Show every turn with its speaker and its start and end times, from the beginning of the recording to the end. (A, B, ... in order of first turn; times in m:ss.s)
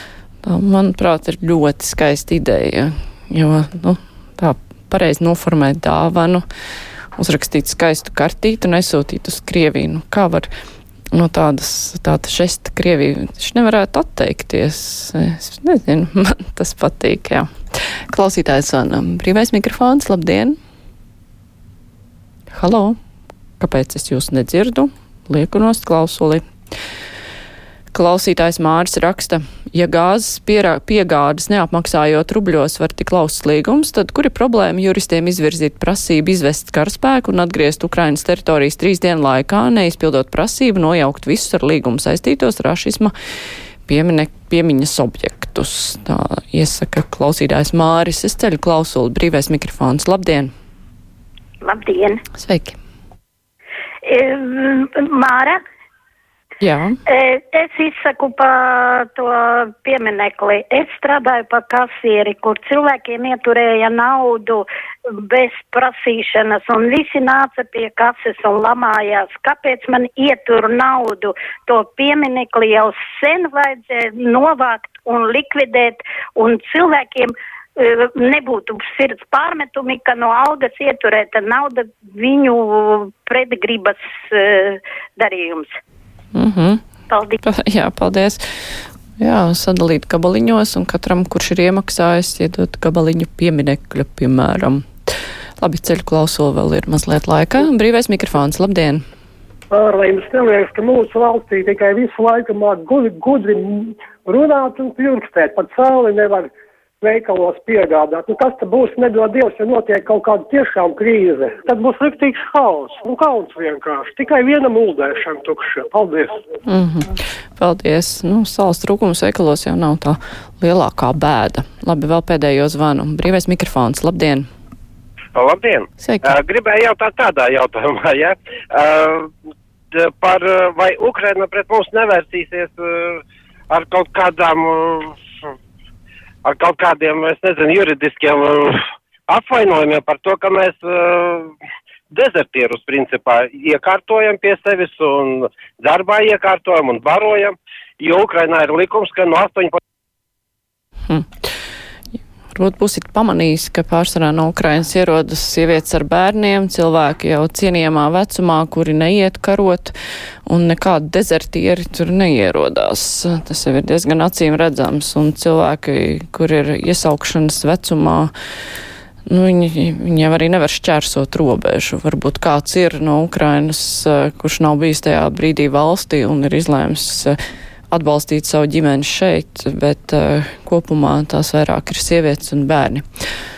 0:00.4-0:06.4 A
0:07.2-0:10.5 A
0:11.1-0:17.5 A
0:18.1-0:20.6 A
0:22.5-0:23.0 A
0:23.6-0:26.4 A
0:27.9-0:43.1 A
0:43.9-0:50.5 A
0:51.6-0:52.2 B
0:52.4-0:52.8 A
0:54.0-0:55.6 B
0:56.6-0:57.0 A
0:57.1-1:04.7 B
1:05.3-1:25.8 B
1:26.3-1:26.8 A
1:27.1-1:27.4 B
1:27.4-1:28.4 A
1:29.2-1:34.8 A
1:35.6-1:39.0 A
1:39.7-1:46.5 C
1:47.0-1:56.4 C
1:56.7-2:04.5 A
2:05.4-2:09.3 D
2:06.0-2:06.3 A
2:09.9-2:13.2 D
2:13.7-2:15.1 D
2:16.4-2:18.8 D
2:19.3-2:21.5 D
2:22.1-2:29.8 D
2:32.5-2:39.9 A
2:40.5-2:48.3 A
2:49.3-2:57.4 A
2:57.9-3:03.0 A